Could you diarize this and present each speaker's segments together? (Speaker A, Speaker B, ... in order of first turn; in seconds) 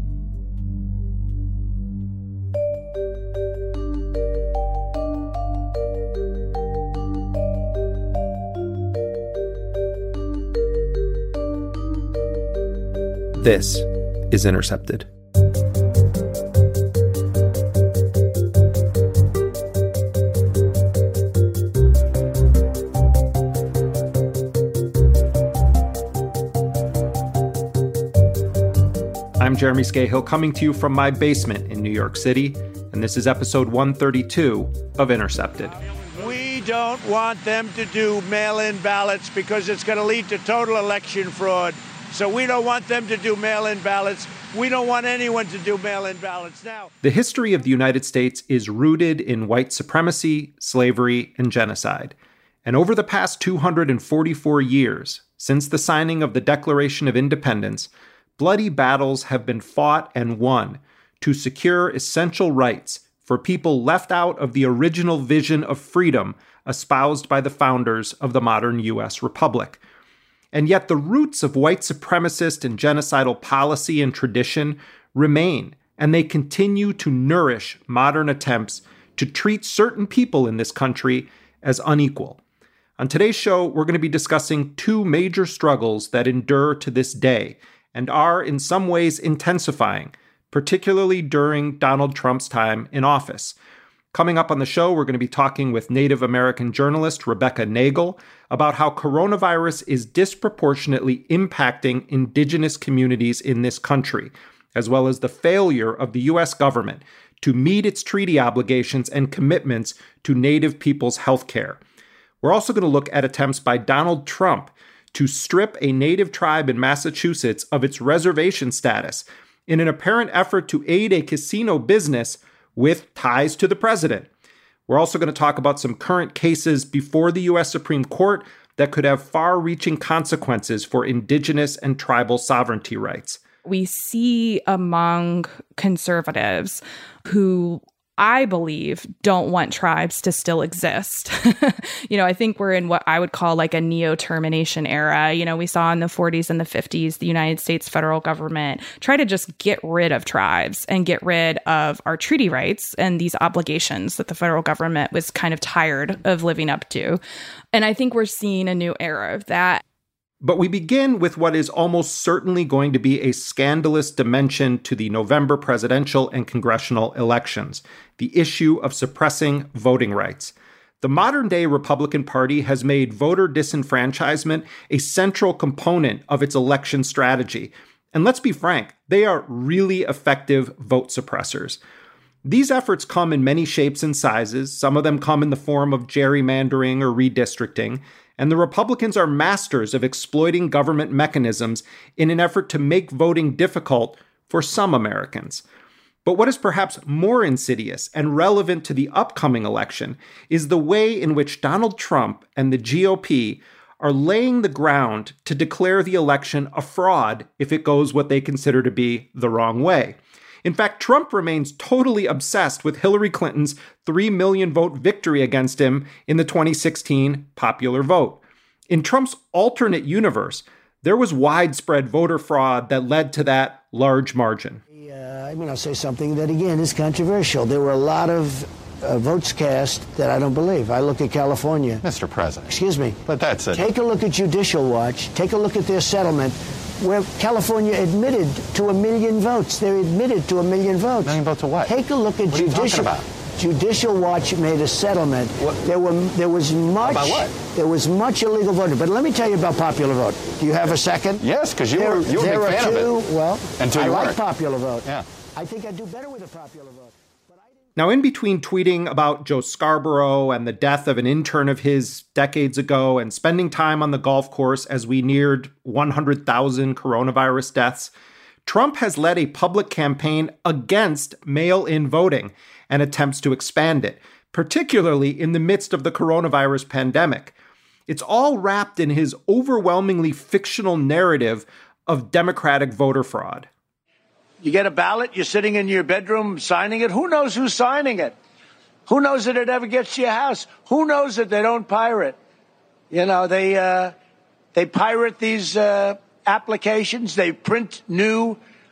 Speaker A: 13.3-15.1, 29.4-35.7, 47.0-69.8, 70.5-82.4, 83.0-93.6, 94.1-111.8, 112.4-124.3, 124.9-133.4, 160.4-181.8, 182.4-195.6, 196.2-224.8, 257.9-268.1, 268.6-277.5, 278.1-283.7
Speaker B: 36.1-46.9, 284.6-288.4, 289.1-292.4, 293.1-294.1, 294.7-298.6
Speaker C: 133.6-157.2, 157.7-159.8
Speaker D: 224.9-232.0, 232.7-251.4, 251.9-257.7
Speaker E: 232.0-232.7, 233.2-233.9, 241.2-243.2, 247.0-247.6, 251.4-253.2, 253.8-254.4